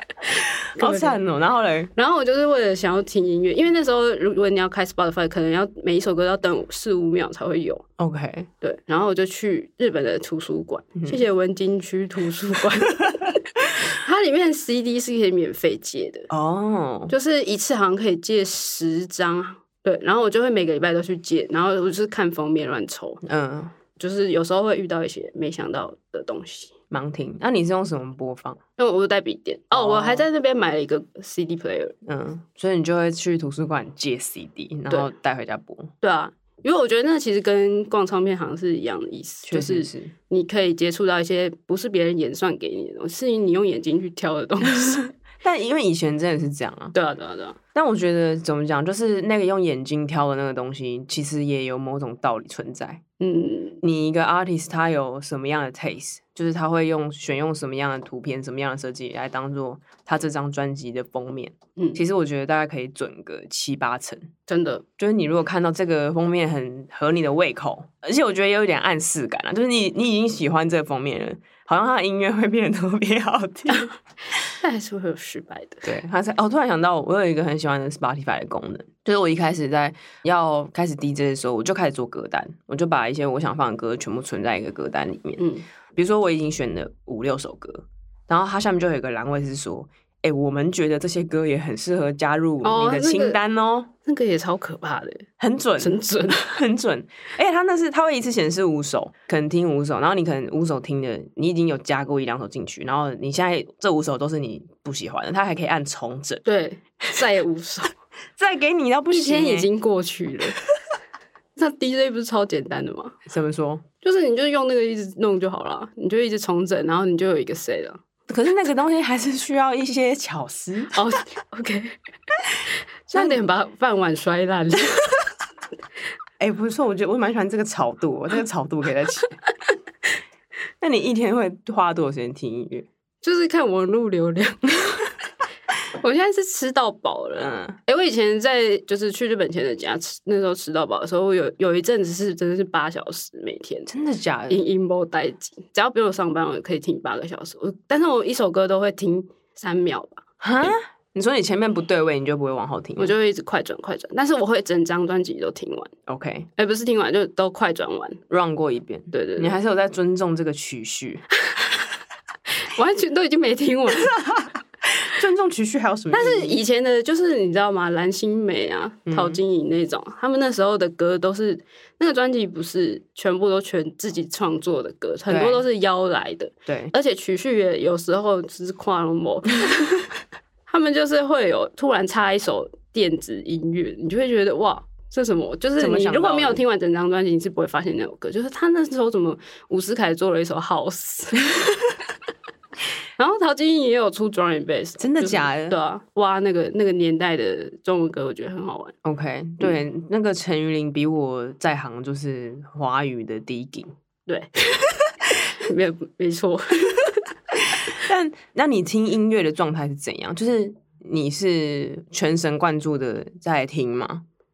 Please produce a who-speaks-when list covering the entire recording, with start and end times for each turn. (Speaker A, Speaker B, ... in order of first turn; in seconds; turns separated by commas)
Speaker A: 0.3-1.2, Speaker B: 0.8-1.9, Speaker A: 2.0-7.8, Speaker B: 8.0-8.5, Speaker A: 8.6-16.3, Speaker B: 16.3-17.1, Speaker A: 17.1-23.2, Speaker B: 23.2-23.8, Speaker A: 24.0-26.7, Speaker B: 26.9-28.6, Speaker A: 28.8-32.0, Speaker B: 29.7-30.3, Speaker B: 32.1-35.9, Speaker A: 36.0-45.1, Speaker B: 39.5-40.1, Speaker B: 44.7-47.0, Speaker A: 46.9-47.6, Speaker B: 47.8-53.0, Speaker A: 53.2-53.8, Speaker B: 53.8-64.3, Speaker A: 64.5-64.8, Speaker B: 65.0-73.9, Speaker A: 74.5-75.9, Speaker B: 75.8-85.4, Speaker A: 85.4-85.7, Speaker B: 86.0-93.9, Speaker A: 92.6-93.4, Speaker A: 94.0-95.3, Speaker B: 95.4-106.4, Speaker A: 95.8-96.5, Speaker A: 106.5-107.9, Speaker B: 108.4-109.7, Speaker A: 109.1-110.6, Speaker A: 111.6-113.2, Speaker B: 113.3-113.8, Speaker A: 114.0-118.0, Speaker B: 118.3-121.0, Speaker A: 120.9-122.0, Speaker A: 123.1-125.2, Speaker B: 123.1-123.4, Speaker B: 126.4-129.4, Speaker B: 130.8-132.9, Speaker A: 133.2-135.1, Speaker A: 136.0-143.9, Speaker B: 137.4-137.8, Speaker B: 143.9-144.6, Speaker A: 144.5-150.2, Speaker B: 150.4-153.1, Speaker A: 153.0-155.9, Speaker B: 156.1-156.5, Speaker A: 156.6-158.2, Speaker B: 158.3-161.2, Speaker A: 159.1-159.6, Speaker A: 162.6-164.3, Speaker B: 164.9-166.6, Speaker A: 166.1-180.1, Speaker B: 169.1-169.4, Speaker B: 175.3-175.6, Speaker B: 176.7-176.9, Speaker A: 180.7-191.9, Speaker B: 185.8-186.6, Speaker A: 193.2-198.9, Speaker B: 195.0-195.8, Speaker B: 199.0-203.9, Speaker A: 204.3-204.8, Speaker A: 205.4-207.8, Speaker B: 207.8-214.2